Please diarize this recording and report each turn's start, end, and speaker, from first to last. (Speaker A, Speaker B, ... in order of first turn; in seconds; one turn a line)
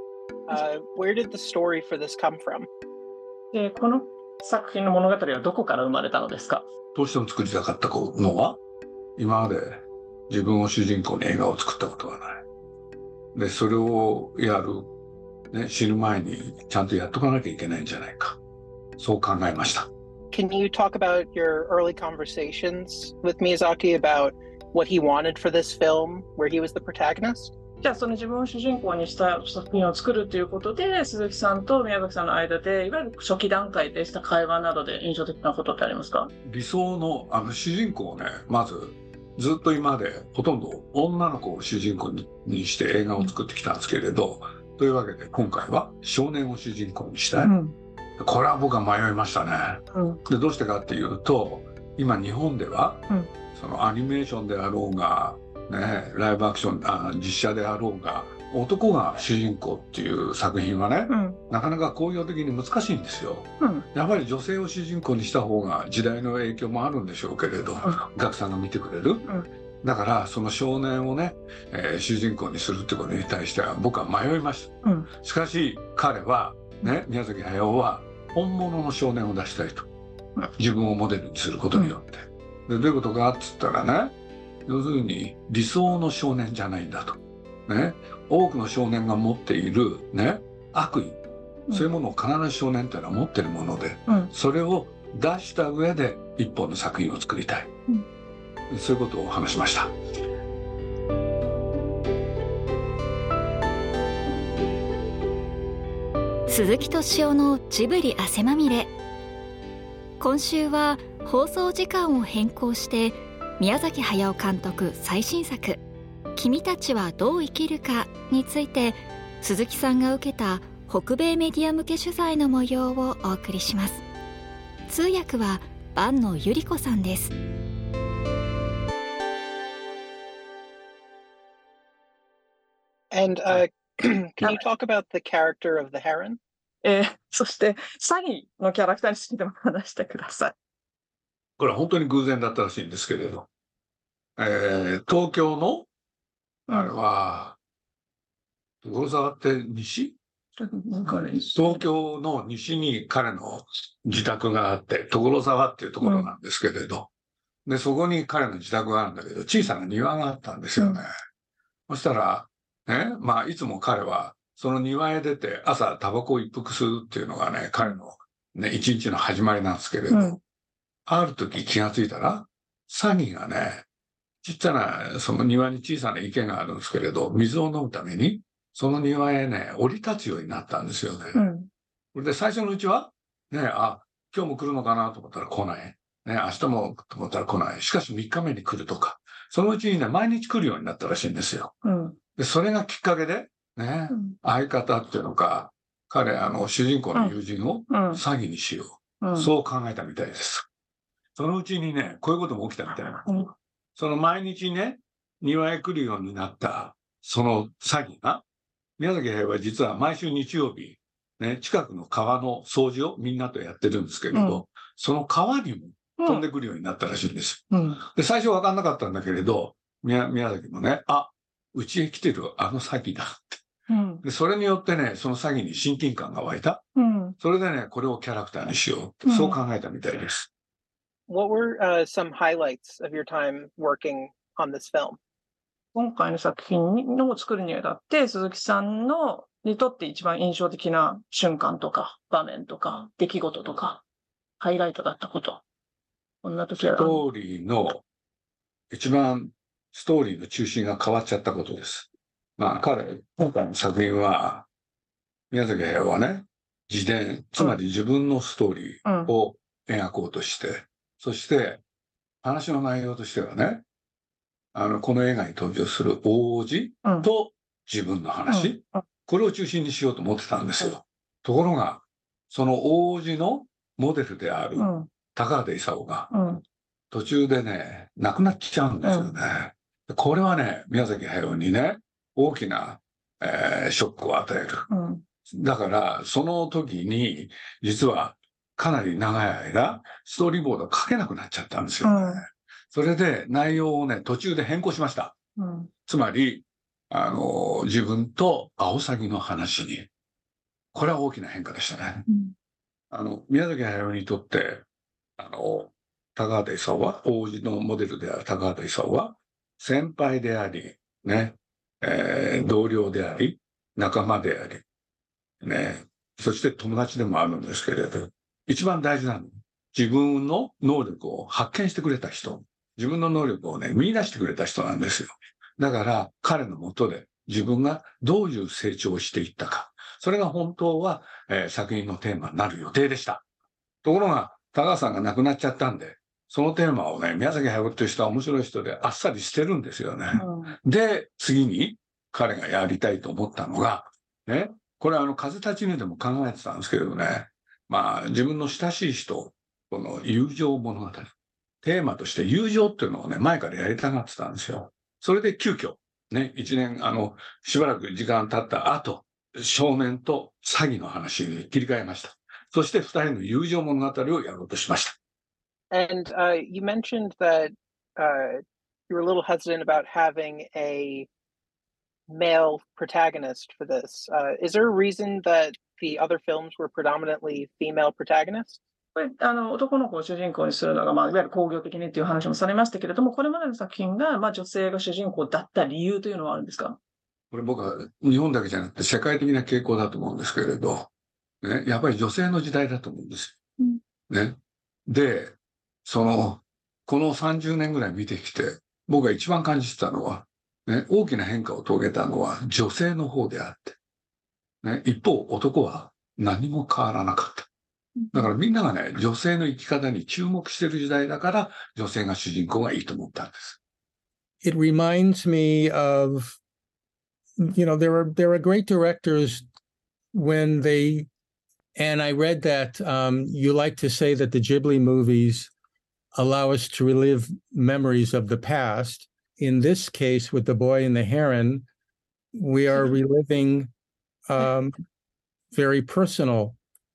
Speaker A: 0.5-2.7
Speaker B: 3.5-6.7
Speaker C: 6.9-8.6
Speaker C: 9.2-12.4
Speaker C: 13.3-14.9
Speaker C: 15.5-18.4
Speaker C: 19.0-19.9
Speaker A: 20.3-27.5
Speaker B: 27.8-36.3
Speaker C: 36.4-47.5
Speaker B: 47.4-47.7
Speaker C: 48.2-69.3
Speaker B: 49.9-50.2
Speaker B: 61.1-61.4
Speaker B: 63.6-63.9
Speaker C: 69.8-79.9
Speaker B: 74.8-75.1
Speaker C: 80.6-84.2
Speaker C: 84.7-91.2
Speaker C: 91.7-97.7
Speaker C: 98.7-100.0
Speaker D: 106.5-108.9
Speaker D: 110.2-115.8
Speaker D: 116.4-124.0
Speaker D: 124.9-127.3
Speaker A: 133.1-136.4
Speaker B: 136.8-140.6
Speaker C: 141.6-143.5
Speaker C: 144.4-145.9
Speaker C: 146.7-147.6
Speaker C: 148.8-150.2
Speaker B: 150.6-151.8
Speaker C: 151.6-157.1
Speaker B: 156.0-156.3
Speaker C: 157.7-161.1
Speaker C: 161.9-170.4
Speaker B: 170.1-170.4
Speaker C: 171.1-173.9
Speaker C: 174.4-181.4
Speaker B: 181.3-181.7
Speaker C: 182.1-191.8
Speaker B: 191.8-192.2
Speaker C: 192.4-200.7
Speaker B: 194.1-194.4
Speaker B: 197.9-198.2
Speaker B: 199.2-199.5
Speaker C: 201.4-203.3
Speaker B: 203.3-203.5
Speaker C: 204.0-208.4
Speaker C: 209.0-223.6
Speaker B: 214.3-214.6
Speaker B: 216.2-216.5
Speaker B: 217.7-218.0
Speaker B: 223.9-224.2
Speaker C: 224.2-226.8
Speaker B: 227.0-227.4
Speaker C: 227.4-230.5
Speaker B: 229.3-229.6
Speaker A: 231.3-235.2
Speaker B: 235.9-244.0
Speaker B: 244.6-245.6
Speaker B: 246.4-247.2
Speaker C: 246.8-248.0
Speaker C: 248.9-254.7
Speaker C: 255.5-261.8
Speaker B: 259.1-259.3
Speaker C: 262.4-263.8
Speaker C: 264.7-276.3
Speaker B: 268.5-269.0
Speaker B: 274.8-275.1
Speaker B: 276.3-276.6
Speaker C: 277.1-284.9
Speaker B: 279.0-279.3
Speaker B: 284.9-285.2
Speaker C: 285.5-295.4
Speaker B: 292.0-292.4
Speaker B: 295.6-295.9
Speaker C: 296.1-300.1
Speaker C: 300.9-302.3
Speaker B: 302.3-302.5
Speaker C: 303.1-304.8
Speaker C: 305.4-314.8
Speaker C: 315.6-333.4
Speaker C: 334.0-365.2
Speaker B: 340.4-340.8
Speaker A: 365.9-371.3
Speaker A: 372.3-378.8
Speaker B: 379.2-387.0
Speaker C: 387.5-391.1
Speaker C: 391.6-393.6
Speaker C: 394.3-404.0
Speaker C: 404.8-407.7
Speaker B: 408.2-408.5
Speaker C: 408.3-413.8
Speaker E: 414.6-416.6
Speaker E: 417.6-419.7
Speaker E: 420.3-421.3
Speaker E: 421.9-425.7
Speaker E: 426.3-431.9
Speaker E: 432.6-433.9
Speaker B: 432.9-433.2
Speaker E: 434.5-435.0
Speaker E: 435.7-436.8